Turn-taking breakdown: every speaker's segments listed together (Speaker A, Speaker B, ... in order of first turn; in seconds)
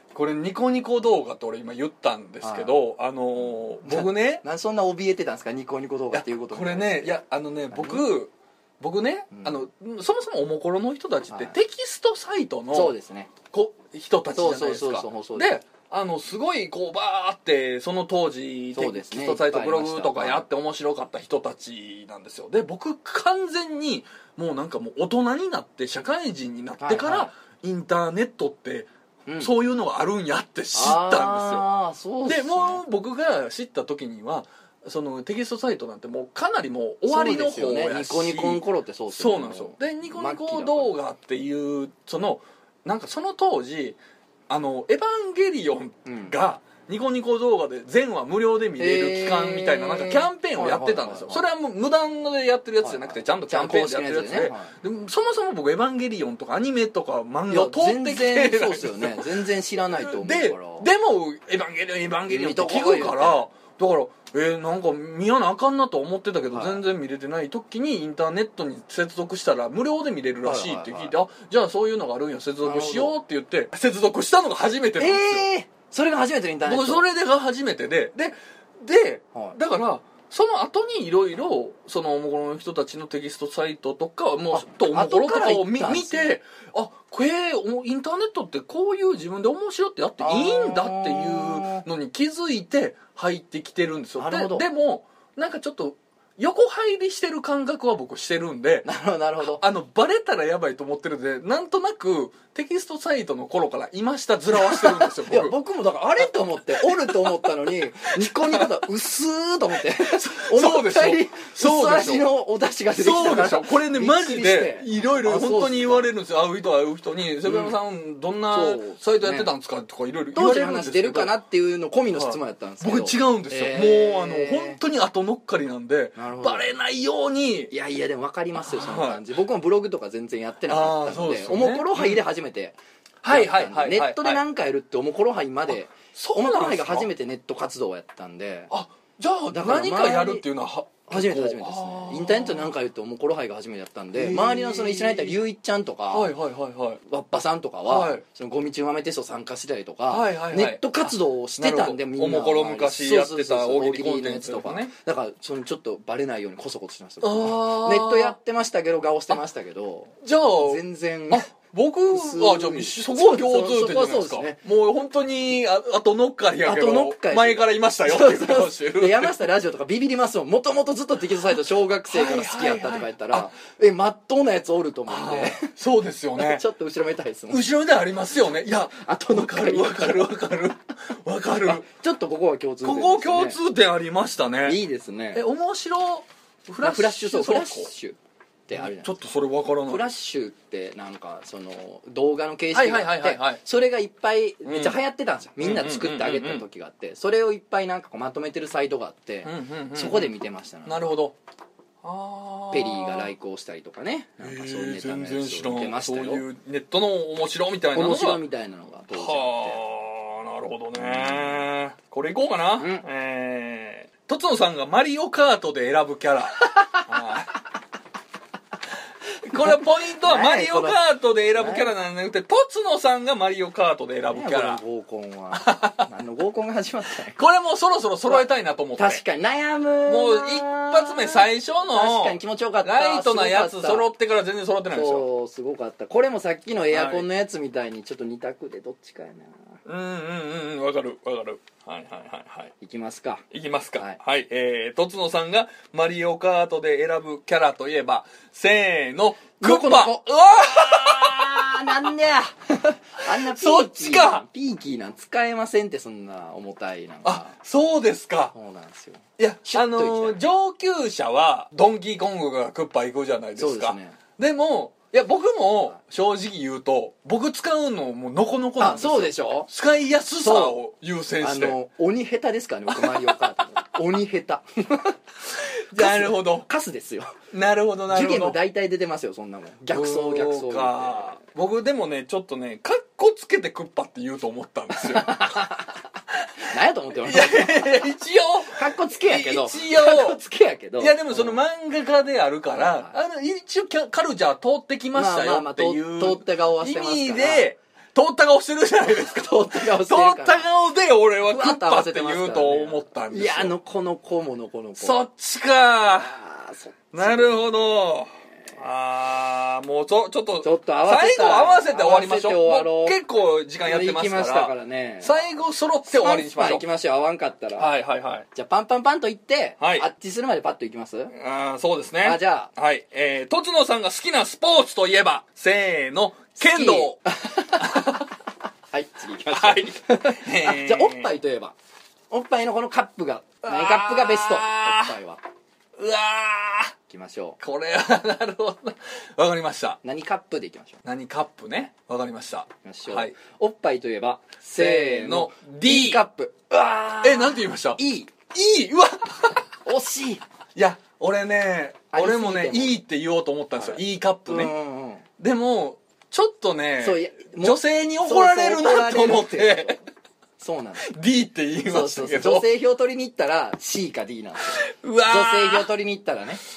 Speaker A: 0.1-4.4, 6.1-12.9, 13.5-28.9, 29.4-31.6, 32.3-44.0, 44.5-75.5, 76.7-98.9, 99.4-105.6, 106.8-107.5, 109.9-112.3, 112.9-121.3, 122.1-127.7, 128.6-129.2, 130.7-132.2, 133.2-134.4, 135.7-137.1, 138.7-142.8, 144.1-145.4, 146.1-147.0, 147.9-148.2, 150.1-154.9, 157.2-158.4, 160.2-169.3, 172.1-173.5, 175.1-176.6, 177.5-181.9, 182.8-184.8, 185.3-187.9, 188.7-190.0, 192.7-193.6, 194.7-195.0, 195.6-196.7, 199.4-200.3, 200.9-201.4, 202.0-203.3, 204.4-208.4, 209.1-217.6, 219.4-224.8, 225.5-226.1, 227.4-229.2, 230.1-235.3, 236.9-237.3, 239.9-242.7, 243.5-252.1, 253.2-254.4, 257.2-258.5, 259.4-271.7, 272.9-273.2, 275.9-276.7, 277.5-278.6, 279.9-285.6, 287.2-290.4, 291.0-303.7, 305.0-306.3, 307.1-316.9, 317.8-318.5, 319.8-320.1, 321.3-327.2, 327.7-328.3, 329.6-331.3, 333.6-335.2, 336.0-336.9, 337.6-340.0, 341.1-343.3, 344.8-346.2, 347.2-348.0, 348.5-349.6, 350.8-354.7, 355.4-360.0, 361.0-362.7, 364.6-365.9
Speaker B: 2.4-2.8, 3.8-7.2, 7.7-8.1, 9.3-9.6, 11.3-11.6, 12.7-13.3, 14.3-15.6, 18.8-20.4, 26.8-27.3, 30.7-32.8, 37.1-40.9, 46.0-46.4, 48.8-51.4, 52.8-54.8, 57.5-60.9, 62.3-63.5, 66.5-66.8, 70.4-71.2, 72.6-73.1, 75.0-77.0, 84.5-86.4, 90.2-91.9, 94.2-94.7, 98.8-99.6, 104.5-116.1, 117.5-117.7, 118.5-119.5, 120.3-124.8, 126.2-126.7, 127.7-132.8, 133.3-138.7, 139.5-140.4, 141.1-146.3, 147.1-161.5, 162.1-164.6, 166.7-175.7, 176.4-177.6, 178.9-180.4, 181.6-183.6, 184.7-185.4, 186.8-188.2, 188.7-189.2, 189.9-201.1, 202.7-206.4, 207.9-209.8, 211.0-211.7, 212.8-213.1, 219.5-221.0, 221.6-221.9, 224.3-227.4, 229.0-234.1, 234.9-239.8, 242.8-243.4, 249.6-257.6, 258.5-260.4, 263.6-264.2, 268.8-269.7, 270.4-270.8, 271.4-275.2, 275.9-277.4, 278.1-281.4, 284.9-285.9, 286.6-288.1, 288.7-291.6, 292.8-293.1, 295.1-297.6, 299.1-300.6, 301.5-305.2, 306.1-307.6, 310.6-313.2, 313.8-315.5, 316.1-317.9, 318.5-321.3, 322.2-322.7, 326.6-328.2, 328.9-331.8, 332.3-335.4, 337.1-337.6, 340.0-341.0, 342.8-348.3, 349.9-350.4, 352.1-353.0, 353.8-355.2, 357.0-360.0, 360.6-361.1, 361.9-366.6